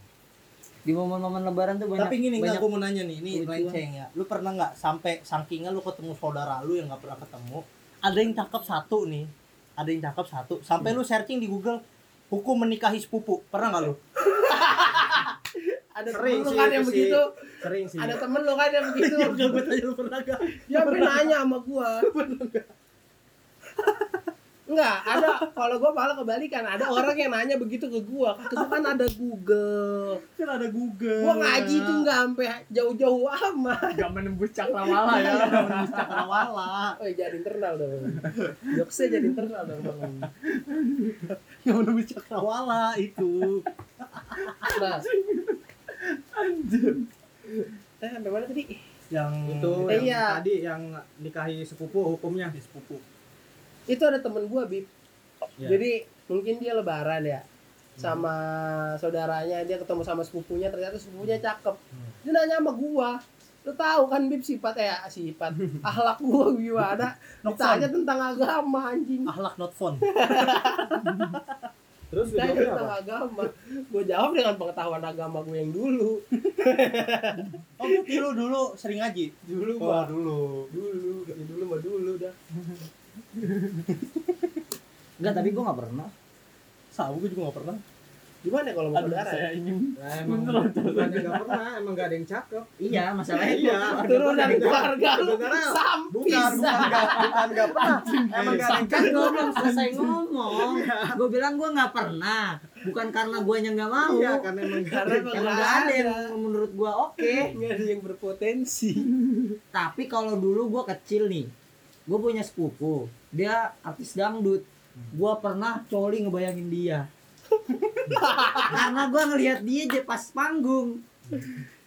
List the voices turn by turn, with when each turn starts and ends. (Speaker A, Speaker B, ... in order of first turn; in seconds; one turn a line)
Speaker A: 0.8-2.6
Speaker B: 2.0-14.0
Speaker A: 3.3-3.7
Speaker C: 14.3-15.3
Speaker C: 15.9-17.3
Speaker D: 16.1-18.2
Speaker C: 17.9-19.6
Speaker B: 18.8-21.3
Speaker C: 20.7-22.1
Speaker B: 22.0-22.7
Speaker B: 23.8-24.2
Speaker C: 24.7-30.2
Speaker B: 28.6-28.9
Speaker B: 30.4-32.1
Speaker C: 31.2-34.1
Speaker E: 33.8-36.4
Speaker C: 35.0-35.5
Speaker B: 35.1-37.0
Speaker C: 37.0-40.3
Speaker B: 41.3-43.7
Speaker B: 44.2-44.5
Speaker E: 44.5-47.1
Speaker C: 44.7-45.0
Speaker C: 48.0-48.8
Speaker B: 49.1-50.2
Speaker D: 49.5-52.6
Speaker C: 49.9-50.4
Speaker B: 52.5-53.0
Speaker C: 53.9-54.9
Speaker C: 55.6-57.4
Speaker D: 58.0-58.3
Speaker C: 58.0-69.3
Speaker B: 67.4-67.9
Speaker B: 69.3-71.4
Speaker C: 70.1-71.1
Speaker D: 72.1-72.9
Speaker C: 72.3-77.5
Speaker B: 77.8-80.7
Speaker C: 79.5-80.1
Speaker C: 80.7-82.3
Speaker A: 85.2-86.1
Speaker B: 86.9-87.8
Speaker C: 88.4-89.5
Speaker E: 89.0-91.6
Speaker D: 90.0-92.8
Speaker A: 92.8-94.9
Speaker D: 93.3-99.6
Speaker C: 93.7-99.6
Speaker E: 96.7-100.0
Speaker A: 98.7-104.5
Speaker D: 100.5-101.2
Speaker D: 104.0-105.7
Speaker C: 104.9-106.3
Speaker A: 105.1-107.5
Speaker C: 107.2-109.1
Speaker A: 109.7-111.5
Speaker A: 112.1-117.1
Speaker C: 118.1-118.8
Speaker A: 118.7-121.0